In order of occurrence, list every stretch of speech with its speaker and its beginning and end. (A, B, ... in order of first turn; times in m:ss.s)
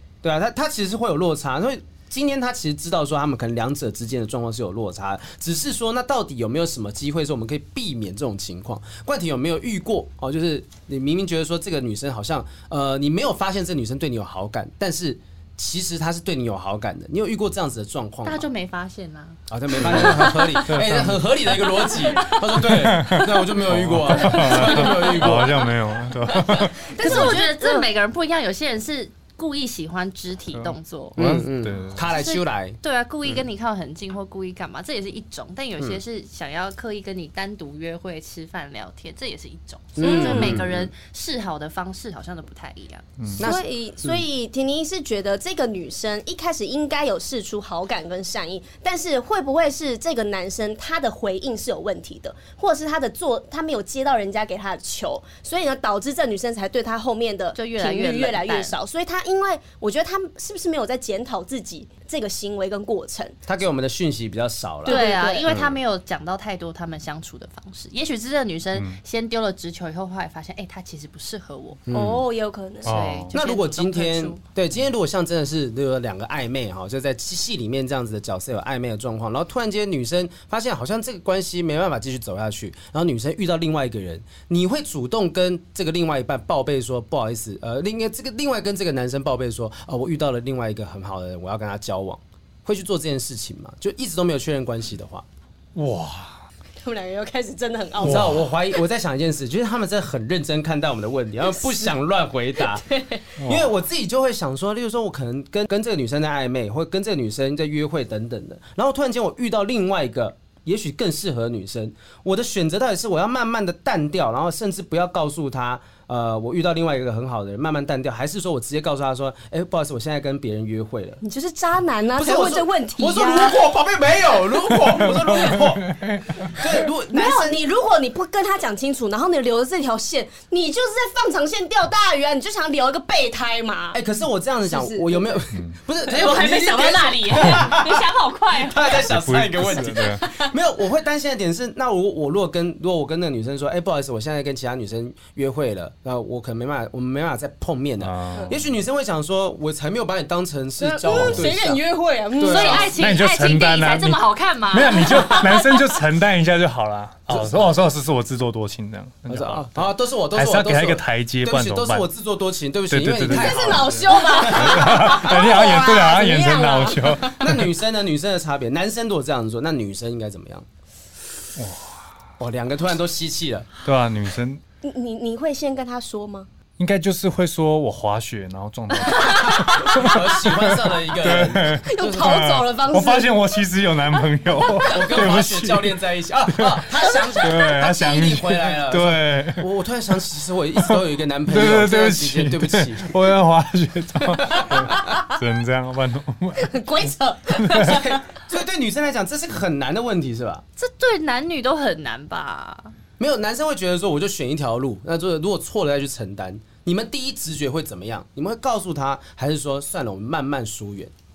0:00.2-0:18.4 A
0:18.2-0:20.5 B
0:19.5-0:25.6 A
0:19.8-0:21.2 C
0:22.1-0:22.4 D
0:22.6-0:27.2 C
0:24.2-0:25.5 D
0:26.3-0:27.9 D
0:27.0-0:31.2 B
0:30.6-0:32.0 C
0:31.2-0:33.4 A
0:32.1-0:43.0 B
0:40.0-0:40.9 A
0:40.0-0:40.6 D
0:43.4-0:44.2 A
0:43.4-1:03.4 D
0:57.6-0:58.7 B
1:03.4-1:05.8 A
1:04.8-1:05.5 D
1:04.8-1:11.8 B
1:11.9-1:12.2 A
1:11.9-1:13.0 D
1:12.8-1:13.3 C
1:12.8-1:14.4 B
1:13.3-1:35.2 A
1:35.7-1:36.4 C
1:36.8-1:38.5 D
1:38.0-1:42.8 A
1:38.0-1:38.4 C
1:41.4-1:41.9 D
1:42.6-1:43.3 D
1:43.4-2:01.2 A
1:43.4-1:43.7 C
2:01.2-2:03.6 D
2:02.2-2:07.6 A
2:05.4-2:06.3 C
2:07.1-2:14.0 D
2:13.9-2:31.8 A
2:14.7-2:15.4 D
2:16.0-2:19.0 B
2:17.5-2:18.0 D
2:19.0-2:20.2 C
2:28.0-2:28.7 C
2:30.8-2:32.9 D
2:31.1-2:31.4 C
2:32.4-2:32.9 A
2:32.4-2:35.8 B
2:32.8-2:42.1 C
2:35.0-2:35.8 D
2:37.3-2:37.7 A
2:39.3-2:45.3 A
2:42.9-2:47.7 C
2:43.2-2:47.3 D
2:47.2-2:50.7 A
2:51.5-2:52.0 C
2:52.4-2:53.7 A
2:53.8-2:54.6 C
2:54.8-2:56.5 D
2:56.8-3:06.0 C
2:59.3-2:59.7 B
2:59.9-3:02.4 A
3:01.8-3:03.4 D
3:04.8-3:13.1 A
3:06.5-3:09.7 C
3:07.0-3:07.7 D
3:10.8-3:16.8 C
3:14.5-3:14.9 A
3:14.6-3:15.4 D
3:16.6-3:18.2 D
3:17.6-3:18.0 C
3:17.8-3:20.6 A
3:20.8-3:22.9 B
3:23.2-3:31.1 A